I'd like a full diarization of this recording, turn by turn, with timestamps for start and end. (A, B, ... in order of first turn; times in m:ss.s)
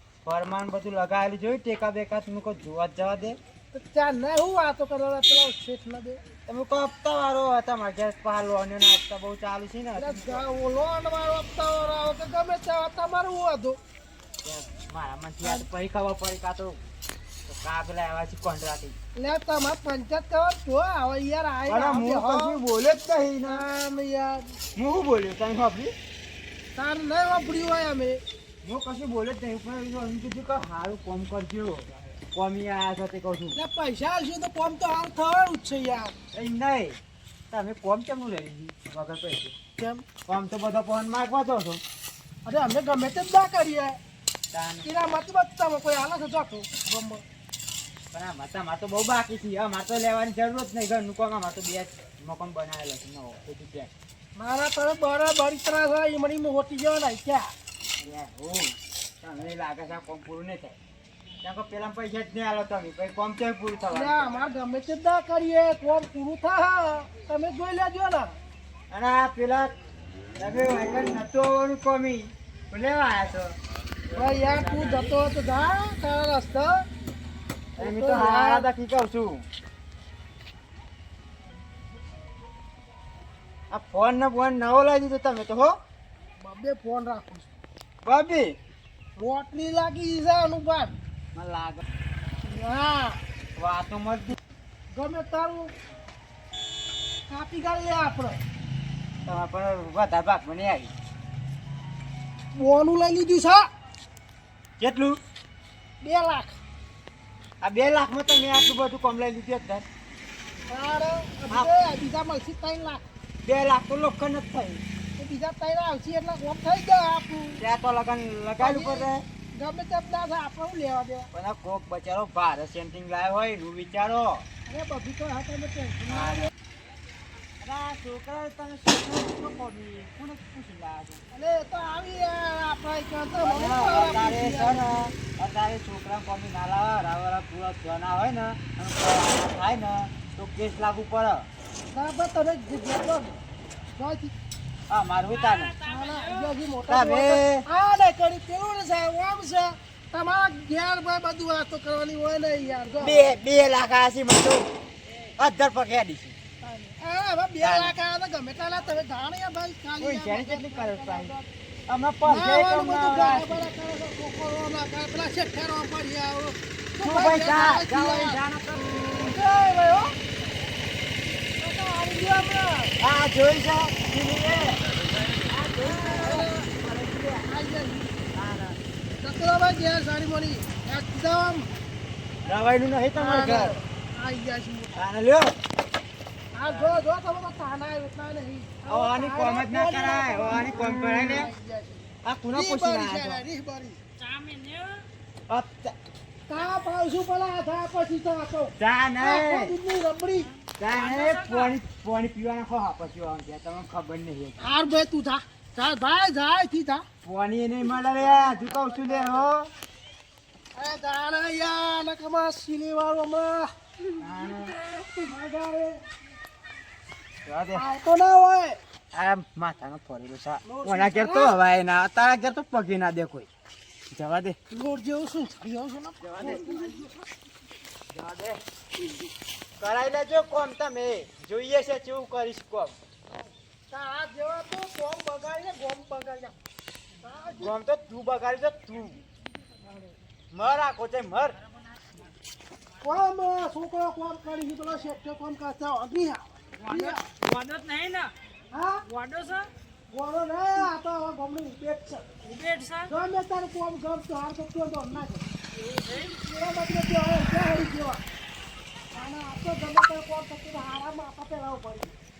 0:00.2-0:03.4 A
0:03.7-0:06.2 B
0:06.5-0:10.4 A
0:10.0-0:13.8 B
0:14.4-0:16.8 A
0:17.5-0:18.9 A
0:19.2-0:22.6 B
0:21.7-0:23.7 A
0:23.4-0:24.6 B
0:24.8-0:25.9 A
0:26.7-0:28.2 B
0:28.6-0:33.6 A
0:33.5-0:36.1 B
0:36.3-0:37.0 A
0:37.5-0:39.5 A
0:39.8-0:40.0 B
0:40.3-0:41.8 A
0:42.4-0:44.0 B
0:44.5-0:44.9 A
0:44.8-0:47.2 B
0:48.1-0:53.9 A
0:54.4-0:57.5 B
0:58.0-1:00.8 A
1:01.4-1:04.4 A
1:03.9-1:08.3 B
1:08.9-1:09.7 A
1:10.4-1:13.5 A
1:14.1-1:16.8 B
1:14.2-1:14.8 C
1:14.4-1:15.1 A
1:17.8-1:18.7 B
1:17.8-1:19.4 A
1:23.7-1:25.7 A
1:26.4-1:27.5 B
1:28.0-1:28.6 A
1:29.2-1:31.0 B
1:31.3-1:31.8 A
1:32.4-1:33.2 B
1:33.6-1:34.4 A
1:34.9-1:35.7 B
1:37.3-1:38.4 B
1:39.2-1:40.9 A
1:42.5-1:43.6 B
1:44.8-1:45.2 A
1:46.0-1:46.6 B
1:47.6-1:49.8 A
1:50.7-1:53.0 B
1:53.4-1:54.8 A
1:55.2-1:57.6 B
1:57.6-1:59.2 A
1:58.6-2:01.3 B
2:01.3-2:04.4 A
2:04.7-2:06.5 B
2:06.1-2:06.5 A
2:07.6-2:11.2 A
2:11.3-2:14.9 B
2:13.4-2:21.5 A
2:21.9-2:23.4 B
2:23.9-2:24.3 B
2:24.9-2:25.7 A
2:25.3-2:26.5 C
2:25.8-2:33.3 B
2:26.9-2:27.6 A
2:33.0-2:34.7 A
2:35.4-2:36.3 A
2:36.6-2:41.5 B
2:37.6-2:37.9 A
2:40.0-2:41.3 A
2:41.9-2:43.7 A
2:42.2-2:48.4 B
2:47.0-2:49.4 A
2:49.2-2:50.1 B
2:51.6-2:52.9 B
2:53.0-2:57.5 A
2:55.8-2:56.7 B
2:57.4-2:58.2 B
2:58.3-2:58.8 A
2:59.2-3:01.7 B
3:02.4-3:03.8 A
3:03.1-3:05.0 B
3:04.9-3:05.6 A
3:06.5-3:14.0 B
3:06.6-3:07.0 A
3:08.8-3:11.5 A
3:12.2-3:13.4 A
3:14.2-3:15.0 C
3:15.5-3:15.9 A
3:16.5-3:20.5 B
3:18.8-3:19.8 A
3:20.4-3:21.7 C
3:20.8-3:24.7 A
3:24.6-3:27.0 B
3:27.2-3:29.7 A
3:28.2-3:29.5 B
3:30.7-3:33.7 B
3:34.2-3:34.8 A
3:35.2-3:36.0 B
3:37.4-3:37.9 A
3:37.7-3:38.8 B
3:39.1-3:43.5 A
3:40.6-3:41.6 B
3:44.1-3:44.6 A
3:44.7-3:47.1 B
3:46.2-3:47.1 A
3:48.1-3:48.6 A
3:49.8-3:53.0 A
3:53.9-3:56.6 B
3:57.2-3:57.7 B
3:57.6-3:59.2 A
3:59.8-4:00.1 B
4:00.5-4:01.6 A
4:03.0-4:07.2 B
4:06.8-4:08.3 C
4:08.7-4:09.0 B
4:09.0-4:09.7 C
4:10.1-4:12.3 B
4:12.4-4:13.1 C
4:13.1-4:15.5 B
4:16.0-4:16.4 C
4:16.3-4:18.2 B
4:19.1-4:22.1 B